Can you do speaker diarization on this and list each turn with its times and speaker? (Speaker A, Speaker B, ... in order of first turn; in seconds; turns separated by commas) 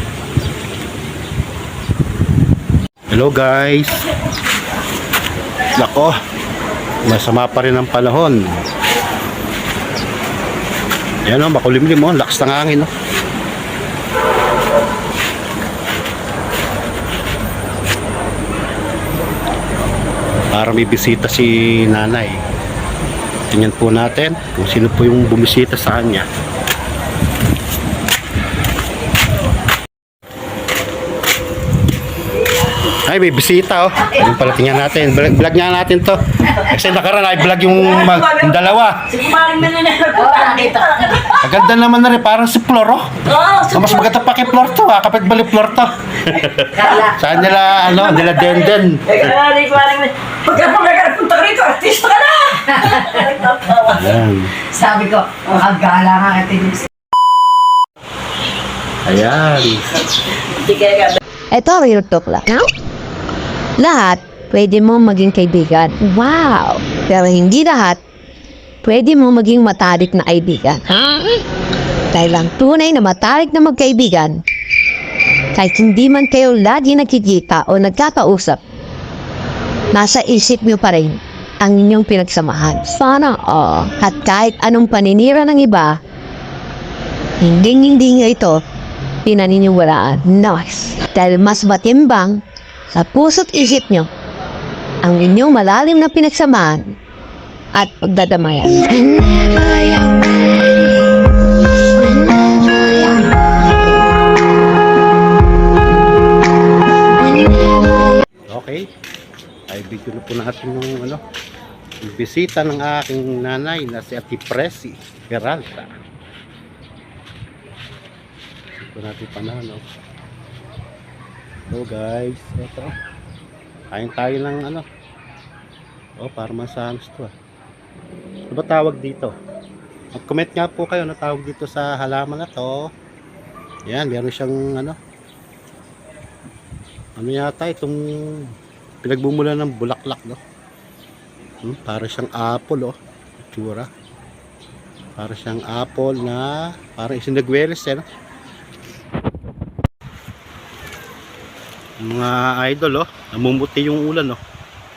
Speaker A: 3.1-4.0, Speaker A: 5.7-6.2, Speaker A: 7.0-8.6, Speaker A: 11.3-12.9, Speaker A: 20.5-22.4, Speaker A: 23.5-26.3, Speaker A: 32.9-39.2, Speaker B: 37.8-41.5, Speaker A: 41.3-49.3, Speaker B: 43.3-44.3, Speaker B: 47.9-54.1, Speaker A: 53.8-54.6, Speaker C: 54.7-56.9, Speaker A: 59.1-60.0, Speaker B: 60.5-61.2, Speaker D: 61.5-62.7, Speaker D: 63.8-68.0, Speaker D: 68.8-71.5, Speaker D: 72.1-74.4, Speaker D: 75.5-78.6, Speaker D: 79.9-86.0, Speaker D: 87.4-88.6, Speaker D: 89.2-92.4, Speaker D: 92.9-94.1, Speaker D: 95.0-96.9, Speaker D: 97.7-100.6, Speaker D: 102.0-103.3, Speaker A: 108.5-108.9, Speaker A: 109.7-111.2, Speaker A: 112.0-116.0, Speaker A: 118.8-119.8, Speaker A: 121.7-123.0, Speaker A: 123.9-124.9, Speaker A: 126.2-127.3, Speaker A: 128.5-129.3, Speaker A: 130.1-132.9, Speaker A: 133.9-135.0, Speaker A: 137.2-138.5, Speaker A: 139.0-140.4, Speaker A: 141.6-143.9, Speaker A: 145.2-148.1, Speaker A: 152.0-154.4